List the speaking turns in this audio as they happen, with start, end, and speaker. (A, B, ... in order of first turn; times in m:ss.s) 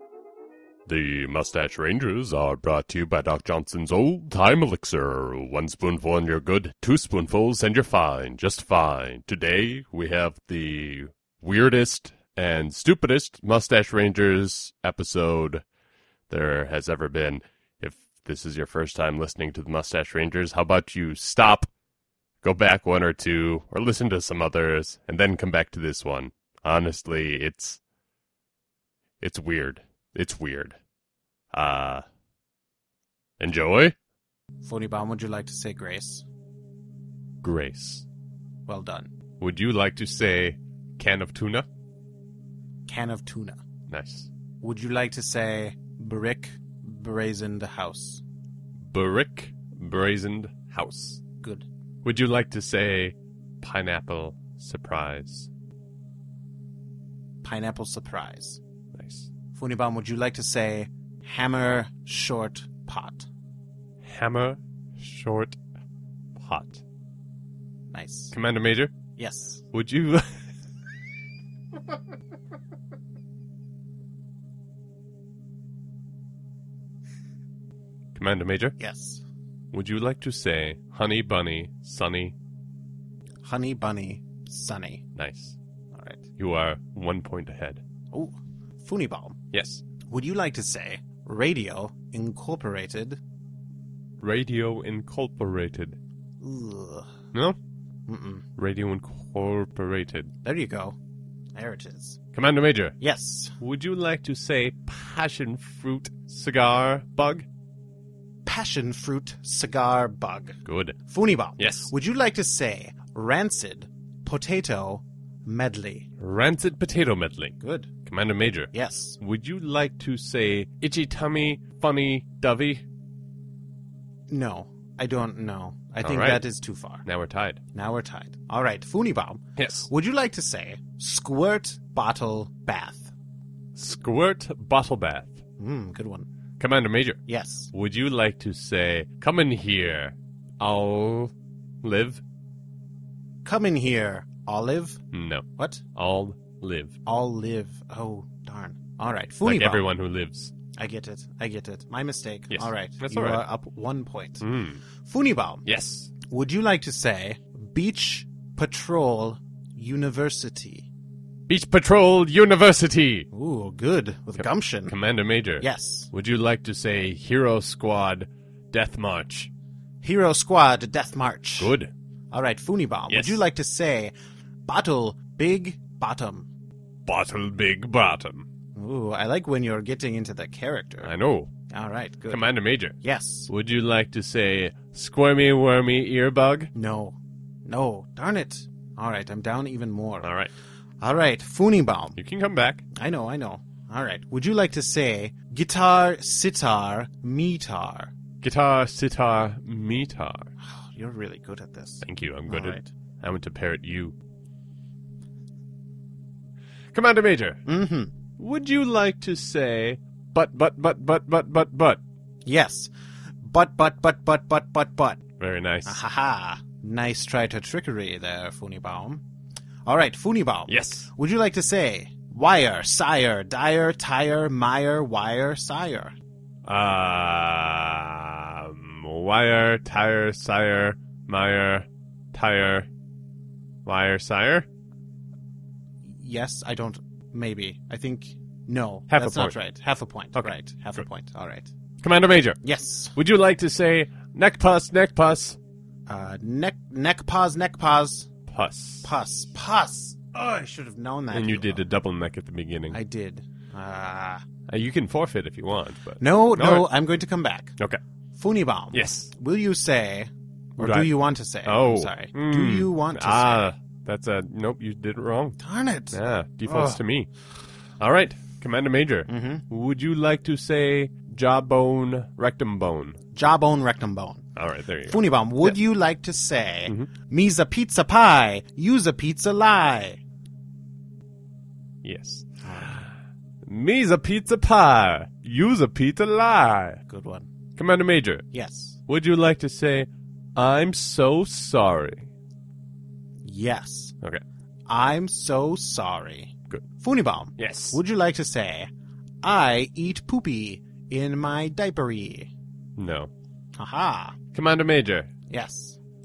0:00.9-0:15.6 A
0:16.3-0:21.7 A
0:22.4-0:27.8 A
0:29.2-0:30.8 A
0:31.5-0:32.0 A
0:33.4-0:34.0 A
0:34.6-0:36.3 B
0:37.4-0:38.1 A
0:38.7-0:39.1 B
0:39.4-0:41.7 A
0:42.9-0:43.6 B
0:43.9-0:44.3 A
0:44.6-0:48.2 B
0:48.9-0:51.2 A
0:51.4-0:51.7 B
0:52.0-0:55.5 A
0:57.4-0:58.6 B
0:58.9-0:59.3 A
0:59.5-1:03.3 B
1:04.0-1:05.6 A
1:06.4-1:06.8 A
1:07.9-1:08.4 B
1:08.3-1:08.9 A
1:09.2-1:09.6 B
1:09.7-1:10.4 A
1:18.1-1:18.8 A
1:18.8-1:19.2 B
1:19.7-1:22.4 A
1:23.4-1:25.0 B
1:25.2-1:25.6 A
1:25.9-1:26.2 B
1:26.4-1:27.8 A
1:28.1-1:29.4 B
1:29.5-1:29.8 A
1:30.1-1:33.2 B
1:34.2-1:36.0 A
1:36.4-1:37.1 B
1:38.1-1:38.4 B
1:38.6-1:40.3 A
1:40.4-1:41.0 B
1:41.6-1:42.2 B
1:42.3-1:43.0 A
1:43.0-1:43.5 B
1:43.6-1:47.5 A
1:48.4-1:56.1 B
1:50.6-1:51.0 A
1:51.6-1:51.9 A
1:56.2-2:02.8 A
1:57.6-1:57.9 B
1:58.7-1:59.2 B
2:04.3-2:07.0 B
2:06.0-2:06.4 A
2:07.0-2:07.6 A
2:07.7-2:13.1 B
2:09.6-2:09.9 A
2:13.8-2:15.4 A
2:15.6-2:16.3 B
2:16.6-2:17.2 A
2:17.3-2:17.7 B
2:17.7-2:22.2 A
2:23.4-2:25.0 B
2:25.1-2:27.0 A
2:25.6-2:25.8 B
2:27.1-2:29.9 B
2:29.4-2:30.5 A
2:30.8-2:34.4 B
2:32.5-2:33.4 A
2:34.4-2:34.8 A
2:35.0-2:35.7 B
2:35.7-2:36.1 A
2:36.3-2:40.9 B
2:41.5-2:43.3 A
2:43.3-2:45.0 B
2:44.9-2:49.5 A
2:45.6-2:46.1 B
2:50.0-2:51.8 B
2:51.6-2:51.9 A
2:52.3-2:54.1 B
2:53.1-2:53.4 A
2:54.7-2:56.5 B
2:57.1-2:58.5 A
2:58.8-3:01.1 B
3:01.0-3:01.5 A
3:01.7-3:02.5 B
3:02.3-3:03.0 A
3:03.0-3:03.5 B
3:03.5-3:06.7 A
3:06.8-3:10.3 B
3:10.2-3:10.5 A
3:11.0-3:12.2 B
3:12.2-3:12.9 A
3:13.0-3:18.1 B
3:18.4-3:20.5 A
3:20.6-3:22.9 B
3:22.0-3:24.2 A
3:26.9-3:27.6 A
3:27.7-3:28.1 B
3:28.4-3:32.0 A
3:32.4-3:32.9 B
3:33.4-3:35.2 B
3:35.4-3:36.0 A
3:35.8-3:39.2 B
3:39.9-3:46.2 B
3:40.7-3:41.1 A
3:46.7-3:52.9 A
3:53.9-3:54.7 A
3:56.0-4:01.7 B
3:59.1-3:59.6 A
4:00.4-4:01.0 A
4:02.0-4:02.6 A
4:02.6-4:03.2 B
4:03.1-4:05.6 A
4:06.1-4:08.3 B
4:08.5-4:09.1 A
4:09.0-4:11.9 B
4:11.3-4:13.0 A
4:12.9-4:14.4 B
4:14.7-4:16.9 A
4:16.2-4:17.8 B
4:18.3-4:23.7 B
4:18.9-4:19.3 A
4:20.8-4:25.6 A
4:25.6-4:27.0 B
4:26.1-4:27.3 A
4:28.0-4:33.2 A
4:29.3-4:29.6 B
4:33.4-4:34.5 B
4:34.6-4:35.8 A
4:35.1-4:40.2 B
4:42.0-4:43.1 A
4:42.6-4:43.0 B
4:43.6-4:47.0 A
4:47.1-4:47.5 B
4:47.8-4:48.5 A
4:48.5-4:49.0 B
4:49.1-4:52.3 A
4:53.4-4:54.2 B
4:54.9-4:58.9 B
4:57.6-4:58.0 A
4:59.4-5:02.5 B
5:03.0-5:03.3 A
5:03.8-5:04.4 B
5:04.5-5:05.3 A
5:05.5-5:06.0 B